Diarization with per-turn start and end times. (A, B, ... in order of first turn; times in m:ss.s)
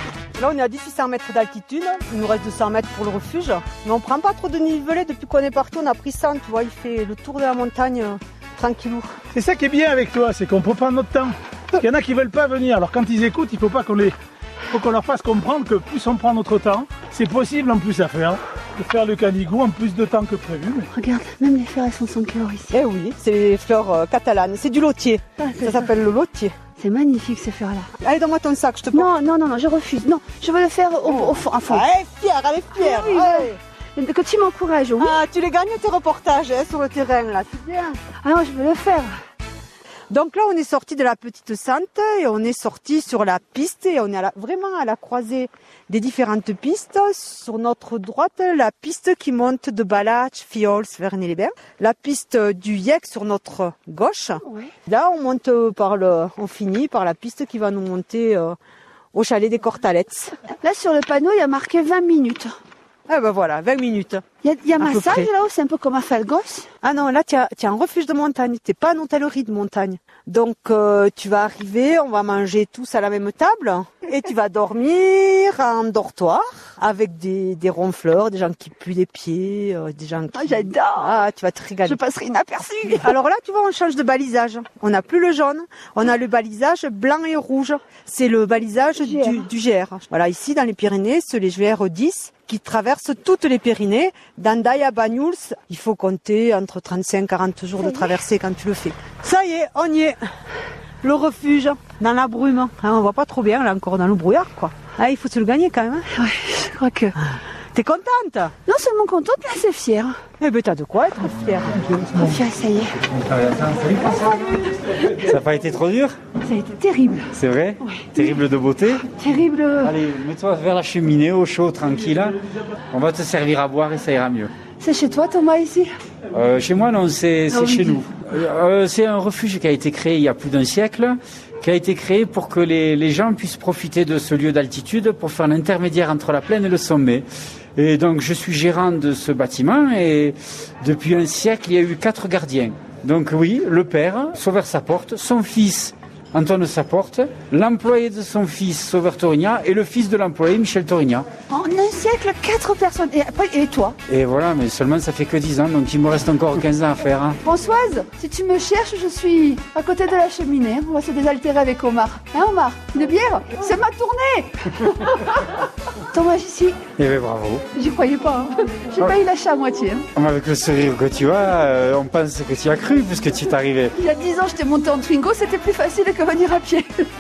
0:00.4-0:09.1 A
0:09.3-0:14.2 B
0:14.7-0:20.9 B
0:20.9-0:22.7 C
0:22.7-0:26.5 A
0:25.4-0:25.9 C
0:26.8-0:27.9 C
0:28.0-0:29.1 A
0:28.9-0:31.8 C
0:31.0-0:33.6 A
0:32.7-0:35.2 C
0:35.0-0:38.0 A
0:38.2-0:39.1 C
0:40.1-0:58.6 A
0:54.4-0:54.7 C
0:59.1-1:00.4 A
1:00.5-1:02.6 C
1:03.1-1:04.2 A
1:04.4-1:06.7 C
1:04.8-1:05.3 A
1:06.8-1:22.0 A
1:20.3-1:21.2 C
1:21.8-1:23.1 C
1:23.0-1:40.2 A
1:29.0-1:29.4 C
1:41.0-1:46.0 A
1:46.1-1:47.2 C
1:47.7-1:48.5 A
1:48.7-1:50.2 C
1:50.4-1:52.2 A
1:52.2-1:53.0 C
1:53.0-1:56.2 D
1:56.4-2:00.0 C
1:57.3-1:59.1 D
1:59.8-2:02.4 D
2:02.9-2:04.5 D
2:04.8-2:05.9 C
2:06.3-2:31.3 D
2:07.5-2:08.0 C
2:31.5-2:34.0 C
2:34.1-2:37.4 D
2:37.4-2:45.5 C
2:46.1-2:46.8 C
2:47.0-2:47.7 D
2:47.7-2:50.1 C
2:50.2-2:54.0 D
2:54.0-2:56.9 C